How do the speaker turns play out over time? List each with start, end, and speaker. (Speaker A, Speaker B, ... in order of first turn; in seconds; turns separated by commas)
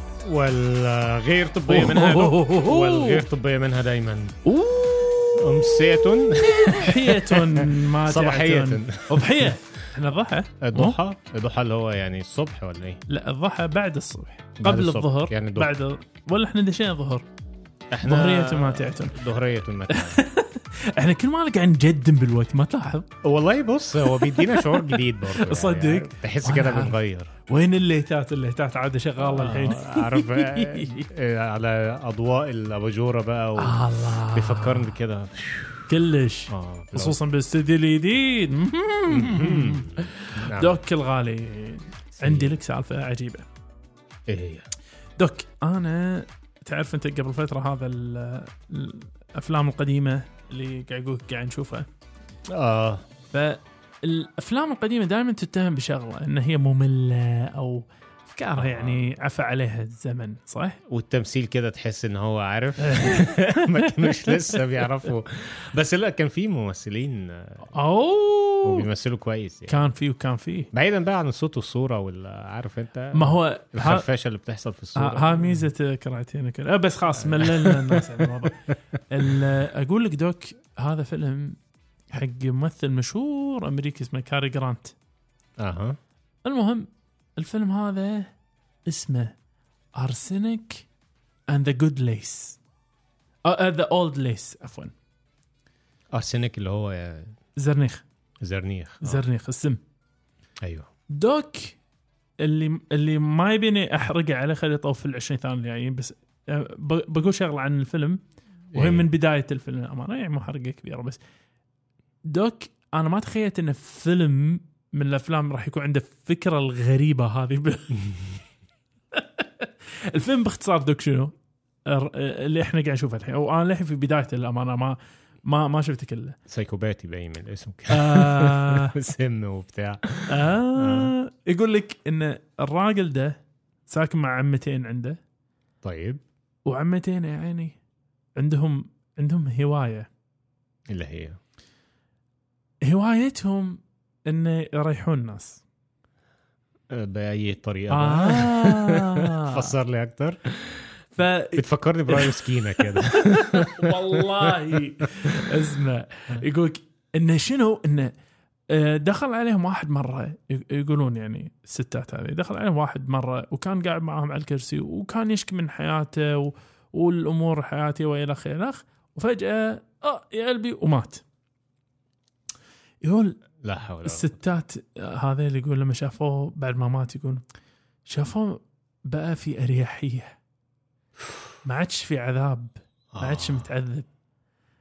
Speaker A: 0.2-4.4, Speaker B: 1.7-3.2, Speaker B: 4.4-5.9, Speaker A: 5.3-9.6, Speaker B: 6.7-11.0, Speaker A: 10.6-13.0, Speaker B: 13.1-17.2, Speaker A: 14.6-15.7, Speaker A: 17.9-20.2, Speaker B: 18.0-19.2, Speaker B: 19.9-23.1, Speaker A: 23.2-27.3, Speaker B: 24.0-27.0, Speaker B: 27.5-31.1, Speaker A: 29.2-35.9, Speaker B: 33.6-34.9, Speaker B: 35.9-43.5, Speaker A: 36.5-37.2, Speaker A: 39.1-40.8, Speaker A: 42.2-42.5, Speaker A: 44.3-44.7, Speaker B: 45.2-51.9, Speaker A: 52.5-53.0, Speaker B: 53.3-60.8, Speaker A: 58.6-59.1, Speaker A: 60.9-67.7, Speaker B: 62.8-64.8, Speaker B: 67.7-68.9, Speaker A: 68.6-69.7, Speaker B: 69.7-70.7, Speaker A: 70.7-75.7, Speaker B: 73.1-74.1, Speaker B: 75.0-85.0, Speaker A: 77.2-78.5, Speaker A: 85.6-86.0, Speaker B: 86.5-88.3, Speaker B: 88.9-89.3, Speaker B: 90.0-90.9, Speaker B: 91.5-92.6, Speaker B: 93.5-94.9, Speaker A: 96.1-97.3, Speaker B: 97.6-98.0, Speaker A: 98.4-99.2, Speaker B: 99.0-99.8, Speaker A: 100.6-100.9, Speaker B: 101.1-101.8, Speaker B: 102.4-111.2, Speaker A: 108.7-109.1, Speaker B: 112.2-118.2, Speaker B: 119.2-121.3, Speaker B: 121.8-126.4, Speaker A: 126.5-131.1, Speaker B: 127.9-129.0, Speaker B: 130.3-135.2, Speaker A: 135.8-136.2, Speaker B: 136.7-137.8, Speaker B: 138.4-140.1, Speaker A: 140.9-141.4, Speaker B: 142.8-145.6, Speaker A: 146.9-155.6, Speaker B: 147.9-149.7, Speaker B: 151.2-158.1, Speaker B: 158.7-171.2, Speaker B: 173.0-173.4, Speaker A: 173.6-174.3, Speaker B: 174.0-177.4, Speaker B: 178.1-180.3, Speaker B: 181.6-184.1, Speaker A: 183.1-183.7